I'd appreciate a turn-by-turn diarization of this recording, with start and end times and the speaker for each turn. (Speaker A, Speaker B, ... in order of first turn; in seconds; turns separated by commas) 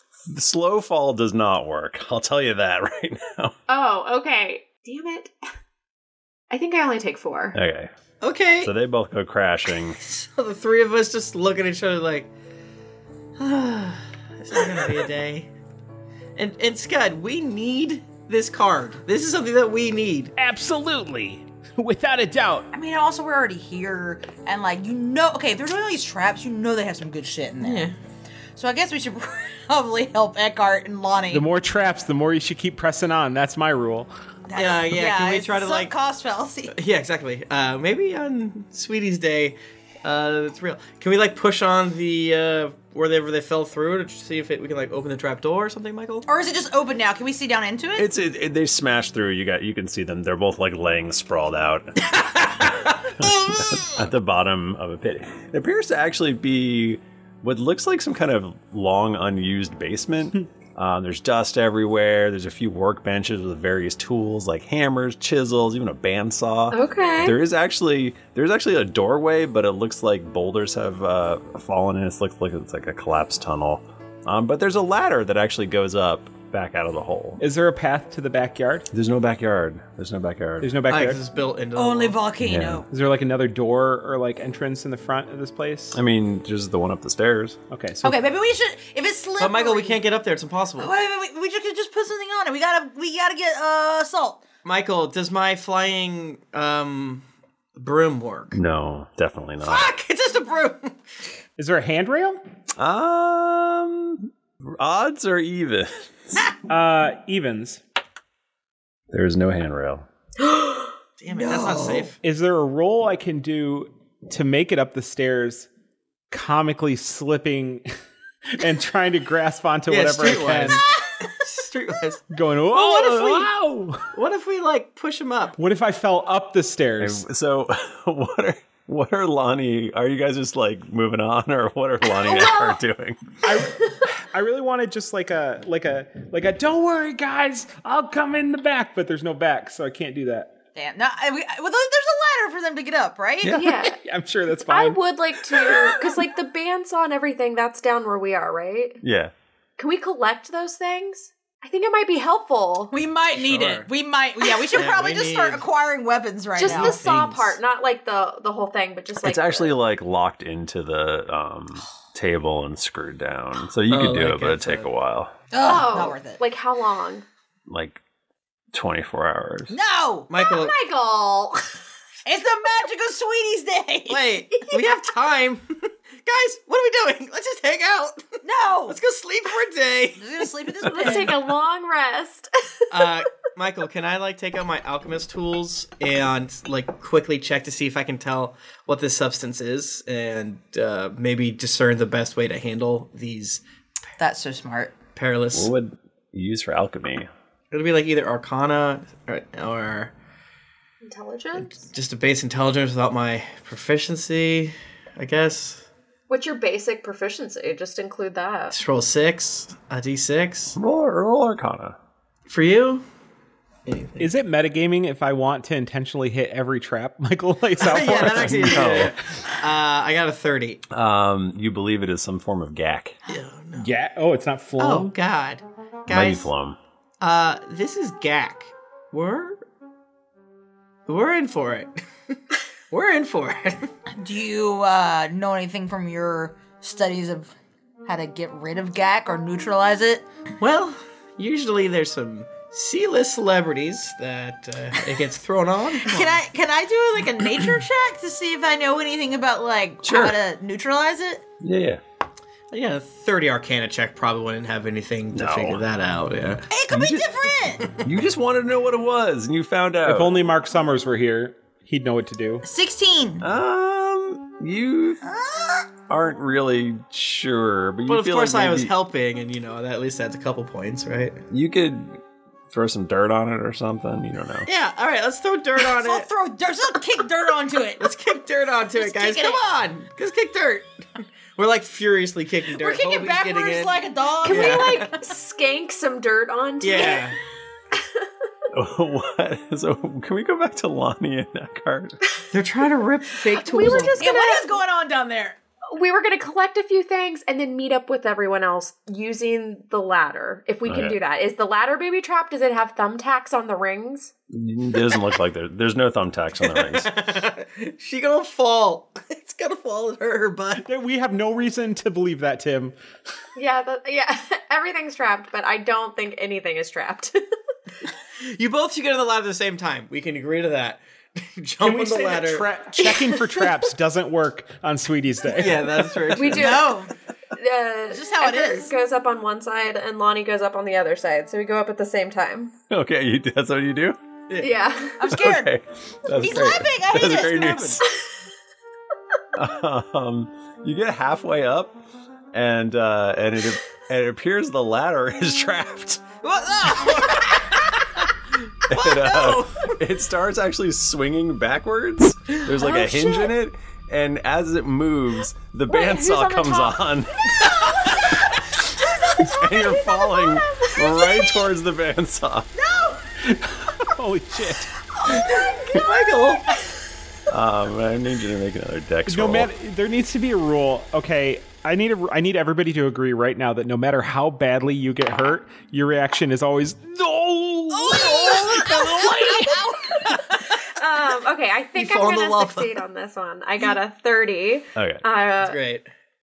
Speaker A: 0.3-3.5, Speaker B: 3.7-5.3, Speaker B: 6.5-7.6, Speaker A: 7.5-7.9, Speaker C: 8.2-8.7, Speaker A: 8.6-10.0, Speaker C: 10.0-12.3, Speaker C: 13.4-15.5, Speaker C: 16.4-20.3, Speaker D: 20.4-22.7, Speaker E: 22.7-27.9, Speaker C: 27.6-27.9, Speaker E: 28.6-31.5, Speaker D: 31.3-34.1, Speaker E: 34.5-36.7, Speaker C: 34.6-35.9, Speaker C: 36.7-46.3, Speaker E: 46.3-48.1, Speaker A: 48.0-77.4, Speaker B: 66.7-67.4, Speaker D: 77.4-78.9, Speaker A: 78.9-80.8, Speaker D: 80.6-81.2, Speaker C: 80.9-82.2, Speaker E: 81.8-82.9, Speaker A: 82.4-82.8, Speaker D: 82.9-86.0, Speaker A: 85.9-87.6, Speaker D: 87.7-88.2, Speaker E: 88.0-90.0, Speaker C: 89.4-90.9, Speaker E: 90.8-94.4, Speaker C: 94.6-97.2, Speaker C: 97.8-98.6, Speaker A: 98.5-99.9, Speaker C: 99.6-101.0, Speaker D: 101.6-102.4, Speaker A: 102.8-106.5, Speaker D: 106.7-107.8, Speaker A: 109.1-110.0, Speaker B: 110.5-110.8, Speaker C: 111.2-112.2, Speaker E: 111.3-112.1, Speaker D: 112.2-115.7, Speaker D: 116.3-117.9, Speaker D: 118.5-120.8, Speaker C: 119.9-122.2, Speaker D: 122.3-124.0, Speaker C: 124.1-125.6, Speaker D: 125.6-127.2, Speaker A: 127.0-133.4, Speaker B: 132.2-132.8, Speaker D: 133.4-140.5, Speaker E: 140.8-143.5, Speaker A: 143.4-143.8, Speaker B: 143.5-144.0, Speaker D: 144.0-145.0, Speaker B: 144.7-149.0, Speaker A: 149.0-149.3, Speaker B: 149.8-152.9, Speaker E: 152.9-157.0, Speaker C: 153.3-153.9, Speaker C: 154.7-155.7, Speaker B: 156.6-159.8, Speaker C: 156.6-157.6, Speaker A: 159.2-165.3, Speaker C: 163.9-164.9, Speaker E: 165.5-166.4, Speaker B: 165.6-167.2, Speaker A: 167.7-168.0, Speaker A: 168.7-169.7, Speaker E: 169.7-170.3, Speaker C: 170.3-170.8, Speaker B: 170.4-171.8, Speaker E: 172.3-174.2, Speaker C: 174.1-178.3, Speaker B: 174.6-174.9, Speaker E: 178.4-179.0, Speaker C: 178.9-180.5, Speaker E: 180.2-181.4, Speaker B: 180.9-182.5, Speaker C: 182.9-193.6, Speaker E: 194.2-194.9, Speaker C: 195.2-195.7, Speaker A: 195.5-197.3, Speaker C: 197.7-200.1, Speaker B: 201.0-201.8, Speaker C: 201.6-205.9, Speaker B: 206.3-208.8, Speaker C: 208.7-210.8, Speaker A: 210.8-212.0, Speaker C: 212.5-213.0, Speaker C: 213.9-214.3, Speaker D: 214.2-219.0, Speaker C: 217.8-220.8, Speaker A: 218.4-219.2, Speaker A: 220.9-223.2, Speaker C: 223.3-223.9, Speaker D: 223.8-225.1, Speaker C: 224.8-226.5, Speaker A: 226.1-226.8, Speaker C: 227.2-229.6, Speaker C: 231.1-232.4, Speaker C: 232.9-233.9, Speaker E: 234.1-237.5, Speaker E: 238.1-240.3, Speaker C: 240.6-246.4, Speaker E: 246.0-251.4, Speaker A: 250.0-250.4, Speaker A: 251.6-252.0, Speaker C: 252.7-256.6, Speaker A: 255.3-255.8, Speaker E: 256.7-257.9, Speaker A: 256.9-257.3, Speaker A: 258.0-260.4, Speaker D: 260.1-262.6, Speaker E: 262.6-263.4, Speaker A: 263.4-265.2, Speaker E: 265.2-265.9, Speaker A: 266.1-268.9, Speaker C: 268.1-271.4, Speaker A: 271.5-272.2, Speaker A: 272.7-274.7, Speaker C: 274.7-276.3, Speaker E: 275.9-278.1, Speaker C: 278.0-285.1, Speaker E: 278.9-279.6, Speaker E: 282.8-285.2, Speaker B: 284.4-287.4, Speaker C: 286.8-287.4, Speaker B: 287.9-288.3, Speaker A: 288.7-292.2, Speaker C: 292.5-294.2, Speaker B: 293.4-294.7, Speaker E: 293.7-295.6, Speaker B: 295.9-304.3, Speaker A: 300.9-301.2, Speaker A: 304.5-307.1, Speaker C: 306.6-310.8, Speaker D: 310.9-312.9, Speaker B: 313.6-317.4, Speaker C: 318.4-322.7, Speaker D: 321.8-326.2, Speaker B: 323.0-323.8, Speaker C: 325.5-327.0, Speaker B: 326.4-332.7, Speaker E: 326.5-327.1, Speaker E: 328.1-328.9, Speaker A: 332.9-334.2, Speaker C: 334.5-334.7, Speaker B: 334.6-335.2, Speaker E: 335.2-335.7, Speaker A: 335.3-338.0, Speaker E: 336.4-338.0, Speaker C: 337.6-337.9, Speaker A: 339.6-342.0, Speaker A: 342.5-346.4, Speaker C: 346.5-347.6, Speaker E: 347.0-347.4, Speaker C: 348.9-350.0, Speaker A: 348.9-358.3, Speaker B: 352.8-353.5, Speaker E: 355.9-357.0, Speaker B: 356.4-356.8, Speaker B: 359.3-361.7, Speaker A: 359.3-362.7, Speaker E: 362.8-363.2, Speaker D: 363.5-364.9, Speaker C: 365.9-366.7, Speaker A: 367.5-369.7, Speaker D: 369.3-379.8, Speaker E: 377.9-380.8, Speaker B: 380.8-385.8, Speaker C: 382.0-382.9, Speaker E: 382.0-382.2, Speaker A: 385.0-385.2, Speaker C: 385.6-386.1